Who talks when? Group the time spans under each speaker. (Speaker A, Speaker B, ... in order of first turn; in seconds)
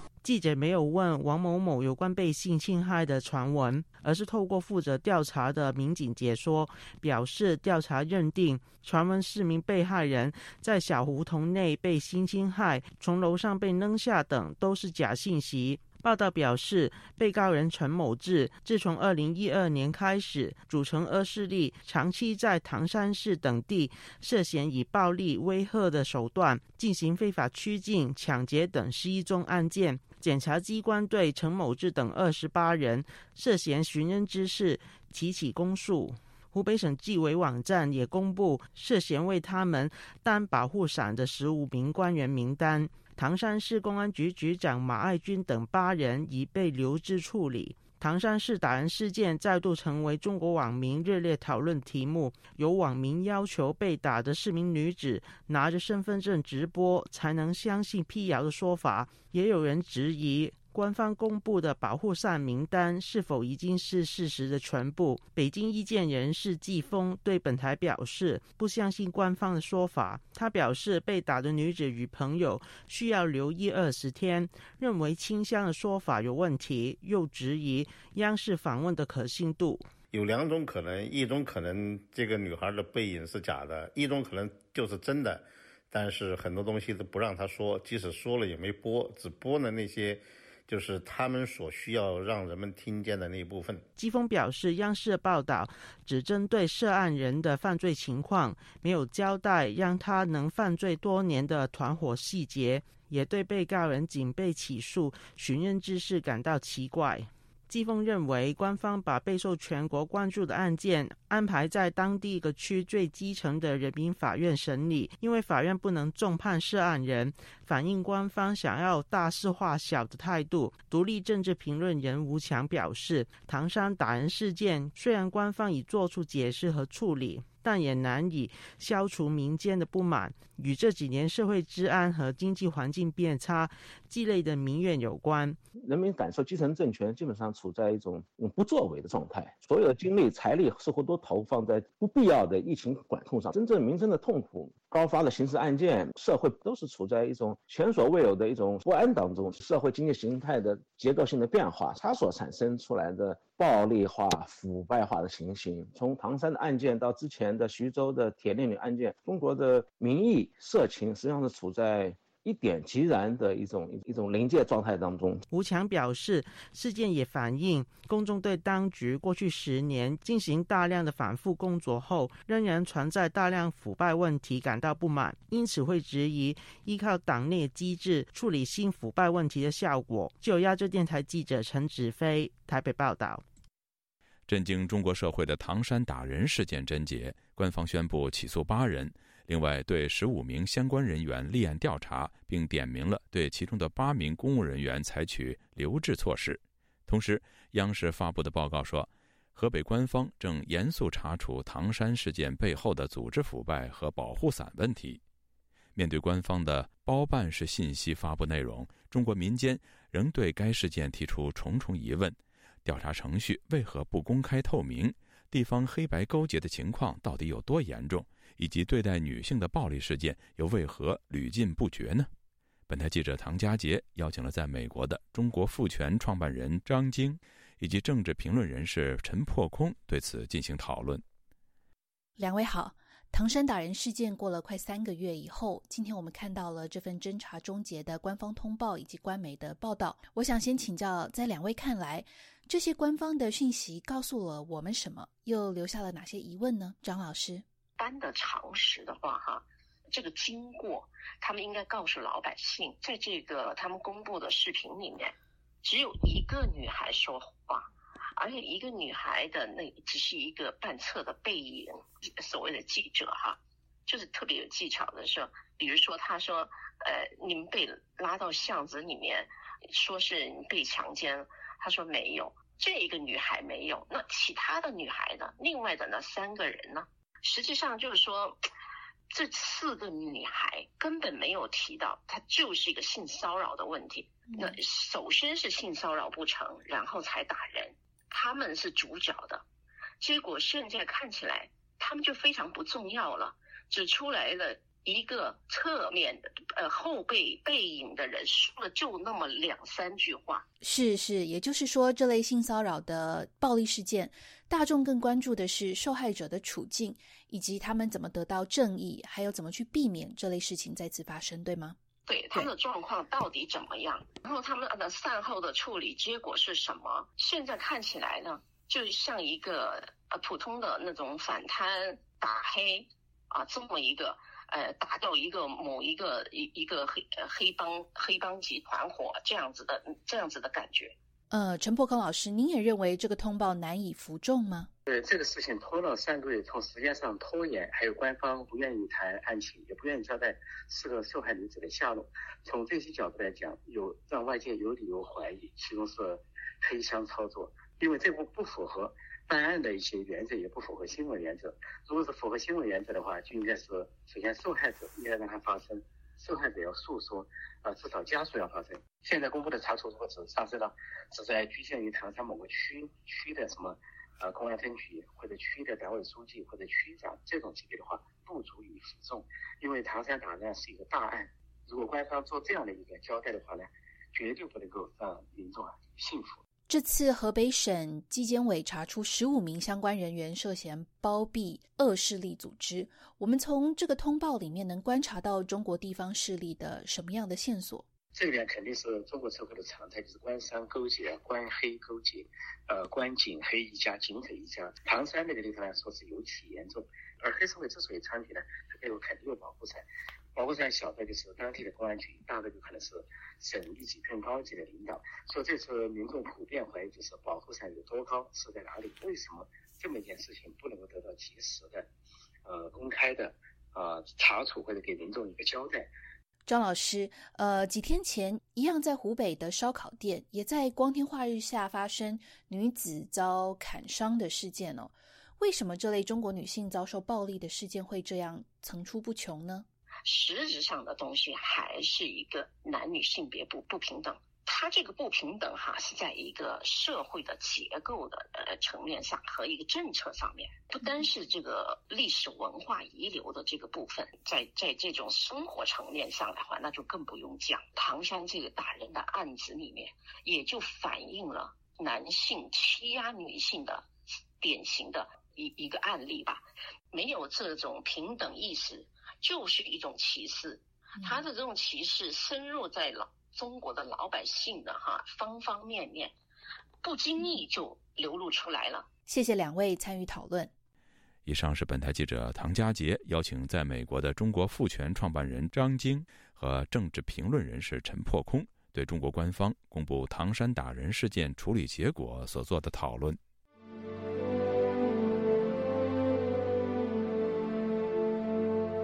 Speaker A: 0.2-79.9, 94.0-135.6, 165.5-183.4
Speaker B: 80.1-93.8
Speaker C: 135.8-165.4
Speaker D: 184.5-205.2, 205.9-222.3, 222.9-231.2, 471.4-483.4
Speaker E: 232.4-247.7, 284.5-284.8, 300.8-312.0, 331.5-334.9, 376.9-388.1, 416.7-429.9, 469.3-470.7
Speaker F: 248.0-278.6, 279.3-289.6, 290.2-300.7, 312.3-331.2, 430.3-454.1, 454.6-466.4, 467.0-469.1
Speaker G: 335.1-376.6, 388.3-412.1, 412.6-416.1